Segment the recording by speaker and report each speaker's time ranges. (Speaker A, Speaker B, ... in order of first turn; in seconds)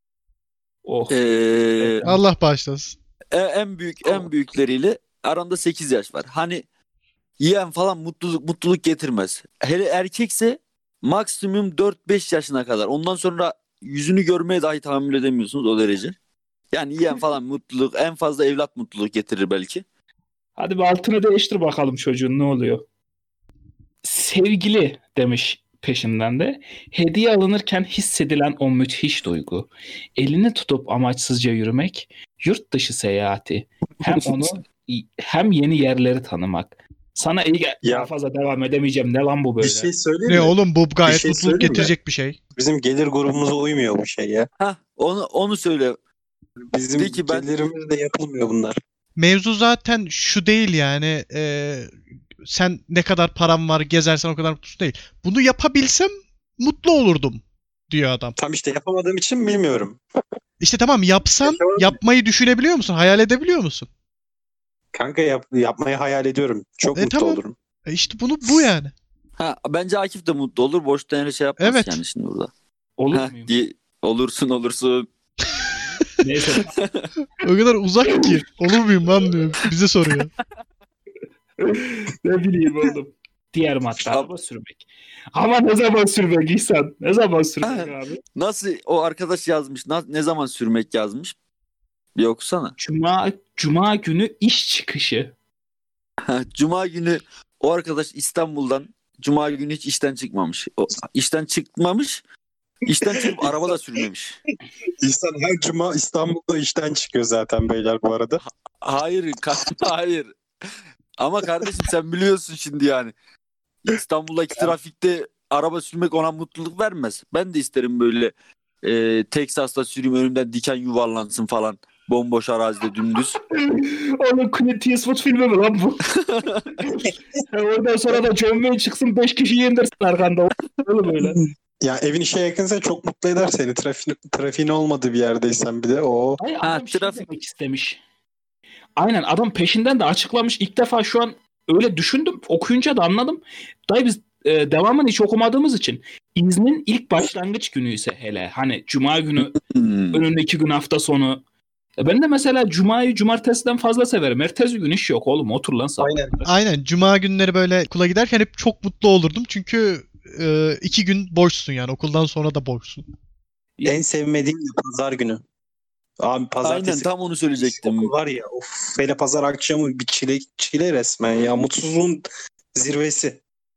Speaker A: 0.8-1.2, 1.8-2.2, 20.6-22.8, 24.0-39.9, 73.0-73.5, 76.2-76.7, 81.6-88.2, 92.8-95.3, 123.5-126.1, 126.8-131.4, 136.4-138.0, 139.0-149.6, 150.1-151.4, 152.0-156.5
Speaker B: 1.1-2.0, 3.3-6.6, 7.4-16.1, 16.7-19.8, 44.6-46.0, 47.0-47.5, 69.4-72.5, 73.1-75.1, 76.7-77.1, 84.0-84.3, 87.6-91.3, 92.2-92.8, 96.2-102.2, 102.9-104.4, 108.8-110.3, 111.2-113.1, 113.8-123.4, 126.2-126.7, 136.6-137.2, 149.6-150.2, 166.6-168.1
Speaker C: 2.0-3.0, 40.3-42.4, 49.2-58.4, 60.6-63.9, 66.9-68.9, 71.6-72.0, 77.4-80.3, 156.5-163.1
Speaker D: 34.1-34.5, 37.8-38.1, 39.6-40.5, 41.0-41.9, 42.6-44.5, 46.7-48.8, 58.4-60.0, 61.5-62.0, 64.9-67.5, 102.9-103.7, 105.0-108.4, 131.2-136.4, 156.0-156.4, 163.9-165.4, 166.2-167.1, 167.6-172.2, 172.8-173.4